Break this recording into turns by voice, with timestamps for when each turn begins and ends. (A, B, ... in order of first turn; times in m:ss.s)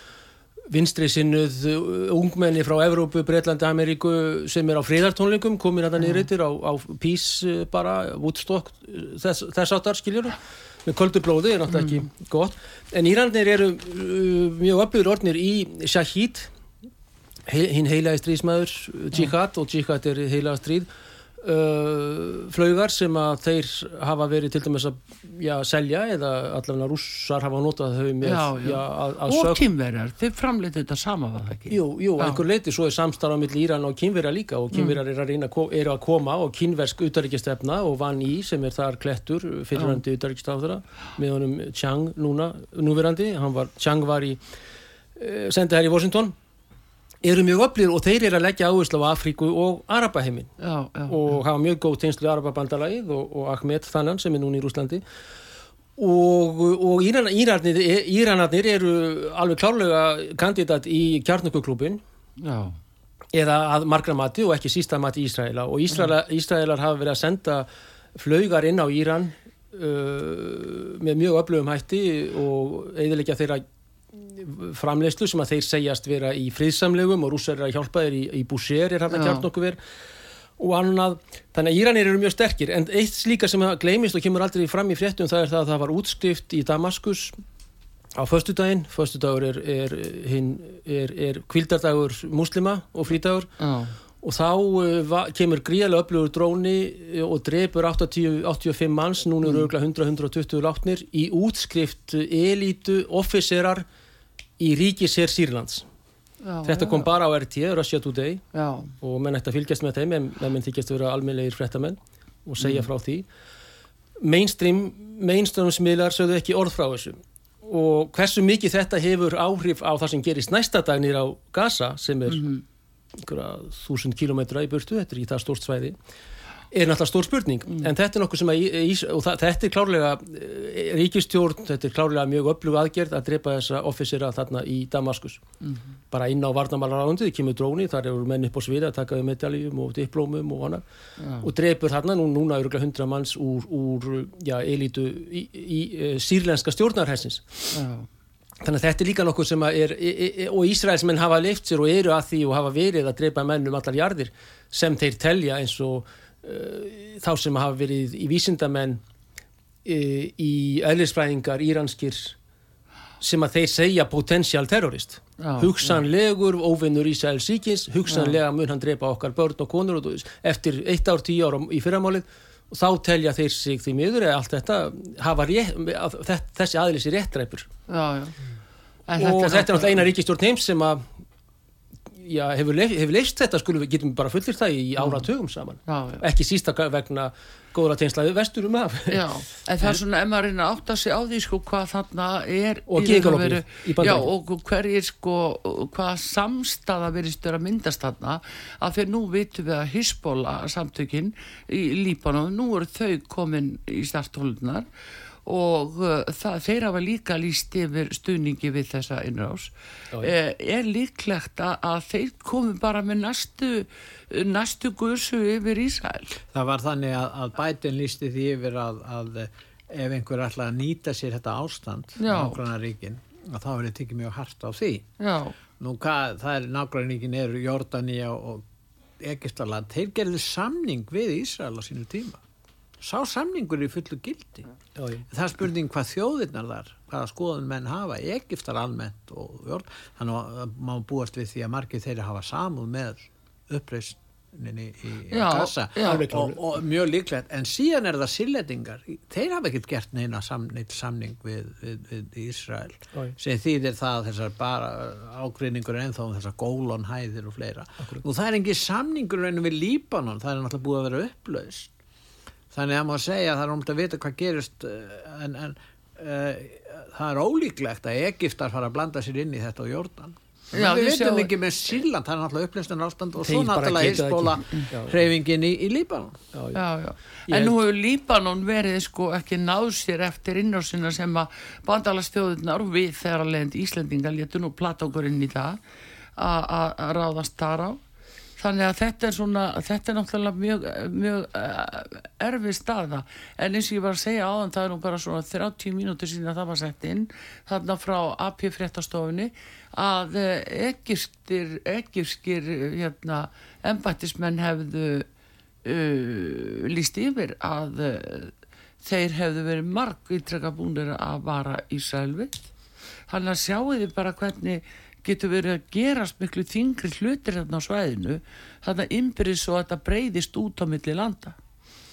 0:00.7-0:16.5 A
0:17.4-0:20.9 A
0:21.4-0:29.6 A
0:28.2-0:32.4 B
0:31.7-0:44.4 A
0:34.7-0:35.0 B
0:45.2-0:46.3 A
0:47.2-0:50.5 A
0:50.6-0:51.4 B
0:51.1-0:55.0 A
0:56.0-1:02.0 A
1:02.4-1:02.8 B
1:03.3-1:19.8 A
1:19.1-1:19.4 B
1:20.6-1:27.4 A
1:28.1-1:33.5 A
1:33.6-1:33.9 B
1:34.2-1:43.8 A
1:44.6-1:45.8 A
1:46.4-1:47.1 B
1:46.6-1:48.4 A
1:48.5-1:48.9 B
1:49.0-1:53.2 A
1:54.2-2:02.5 A
2:02.3-2:02.6 B
2:03.1-2:06.0 A
2:06.7-2:15.4 A
2:16.1-2:20.8 A
2:21.2-2:21.5 B
2:21.4-2:27.8 A
2:27.7-2:28.1 B
2:28.6-2:39.0 A
2:39.8-2:42.4 A
2:43.2-2:57.7 A
2:45.4-2:46.0 B
2:48.1-2:48.4 B
2:57.9-2:58.4 B
2:59.1-3:00.0 B
2:59.2-3:01.1 A
3:02.1-3:09.3 A
3:05.0-3:05.2 B
3:05.9-3:06.2 B
3:09.1-3:24.8 B
3:12.9-3:14.3 A
3:25.4-3:36.4 B
3:36.5-3:45.1 C
3:42.2-3:42.6 B
3:45.2-3:45.5 B
3:45.8-3:48.6 C
3:49.2-3:52.4 C
3:53.0-3:54.7 C
3:55.0-3:55.2 A
3:55.3-4:21.9 C
4:05.3-4:06.2 B
4:06.0-4:06.6 A
4:22.7-4:36.4 C
4:30.7-4:31.5 B
4:33.4-4:35.2 A
4:36.5-4:36.8 A
4:36.7-4:45.8 B
4:37.5-4:37.7 A
4:46.4-4:48.0 B
4:48.6-5:05.3 B
5:05.8-5:12.7 B
5:13.3-5:21.6 B